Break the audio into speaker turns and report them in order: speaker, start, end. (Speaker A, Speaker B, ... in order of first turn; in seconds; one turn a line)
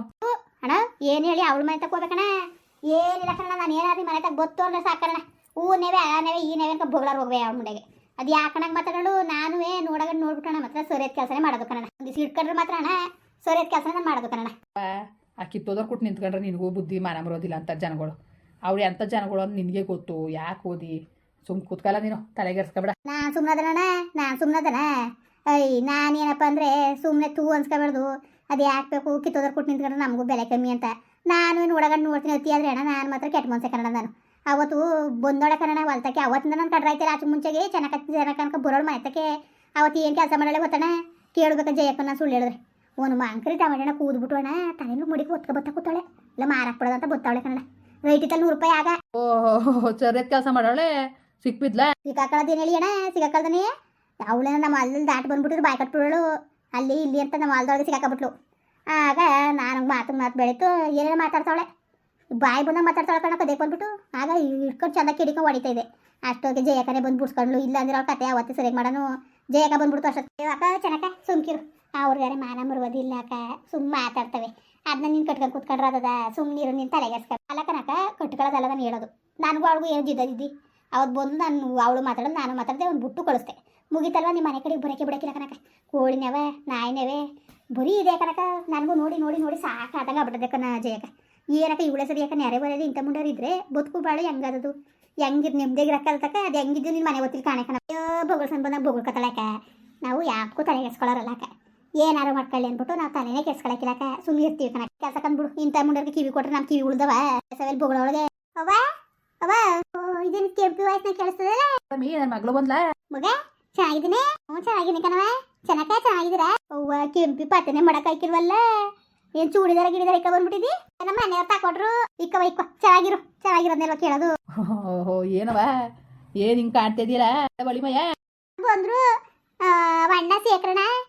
Speaker A: 0.2-2.3
Speaker A: 2.9-14.5
Speaker B: 14.8-22.9
Speaker A: 23.1-24.9
Speaker A: 25.5-49.0
Speaker B: 49.2-50.9
Speaker B: 51.4-51.9
Speaker A: 52.0-53.7
Speaker A: 54.2-56.2
Speaker A: 56.8-58.3
Speaker A: 58.9-61.7
Speaker A: 62.4-87.2
Speaker A: 87.7-108.9
Speaker A: 109.4-111.8
Speaker B: 111.9-112.8
Speaker A: 113.1-124.3
Speaker B: 124.6-125.7
Speaker B: 126.4-128.1
Speaker A: 128.6-129.1
Speaker A: 129.6-130.9